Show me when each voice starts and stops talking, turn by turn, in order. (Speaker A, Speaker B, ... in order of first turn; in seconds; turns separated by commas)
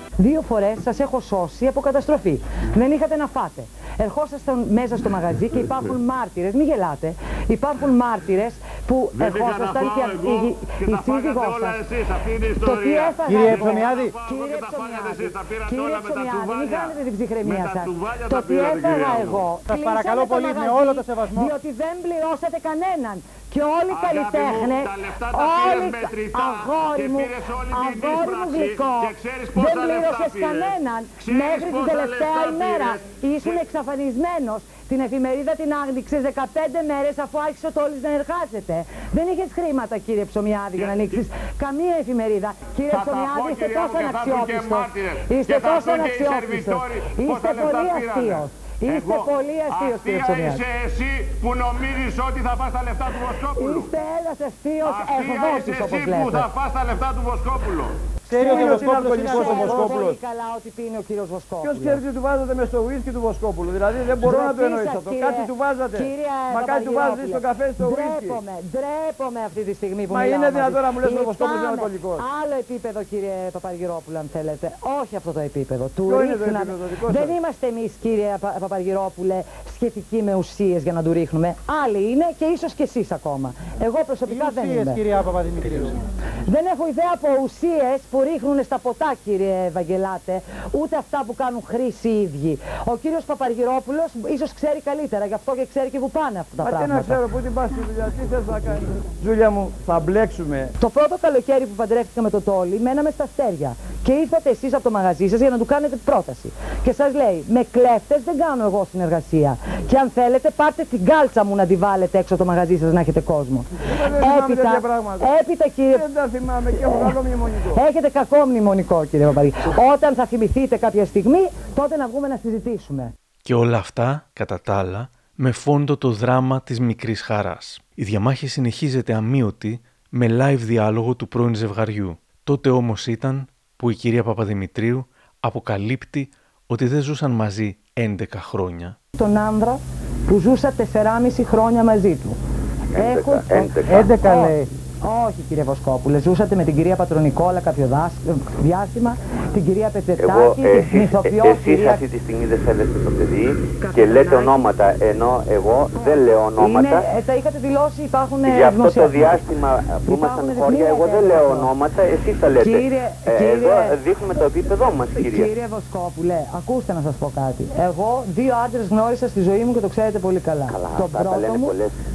Speaker A: 0.2-11.9, Speaker B: 9.2-13.2, Speaker A: 12.6-50.6, Speaker C: 13.3-14.2, Speaker B: 14.0-19.5, Speaker C: 19.6-21.5, Speaker B: 23.9-32.9, Speaker B: 40.8-41.2, Speaker B: 42.9-53.9, Speaker A: 53.5-56.5, Speaker B: 54.8-58.0, Speaker C: 58.3-59.9, Speaker D: 58.4-60.2, Speaker A: 58.4-62.0, Speaker D: 61.6-68.4, Speaker A: 64.2-85.0, Speaker D: 70.1-72.2, Speaker D: 76.1-77.4, Speaker C: 84.3-86.0, Speaker A: 86.4-97.2, Speaker D: 96.6-100.7, Speaker A: 100.8-116.0, Speaker D: 113.9-115.3, Speaker D: 115.9-117.8, Speaker A: 116.8-117.2, Speaker A: 117.7-123.1, Speaker E: 123.4-139.0, Speaker A: 139.2-142.4, Speaker F: 142.9-144.1, Speaker A: 142.9-152.0, Speaker C: 143.9-144.7, Speaker F: 150.2-157.0, Speaker A: 153.8-154.7, Speaker A: 156.6-159.4, Speaker F: 158.4-165.5, Speaker A: 160.0-161.7, Speaker A: 162.6-164.5, Speaker A: 165.1-171.8, Speaker F: 170.7-171.9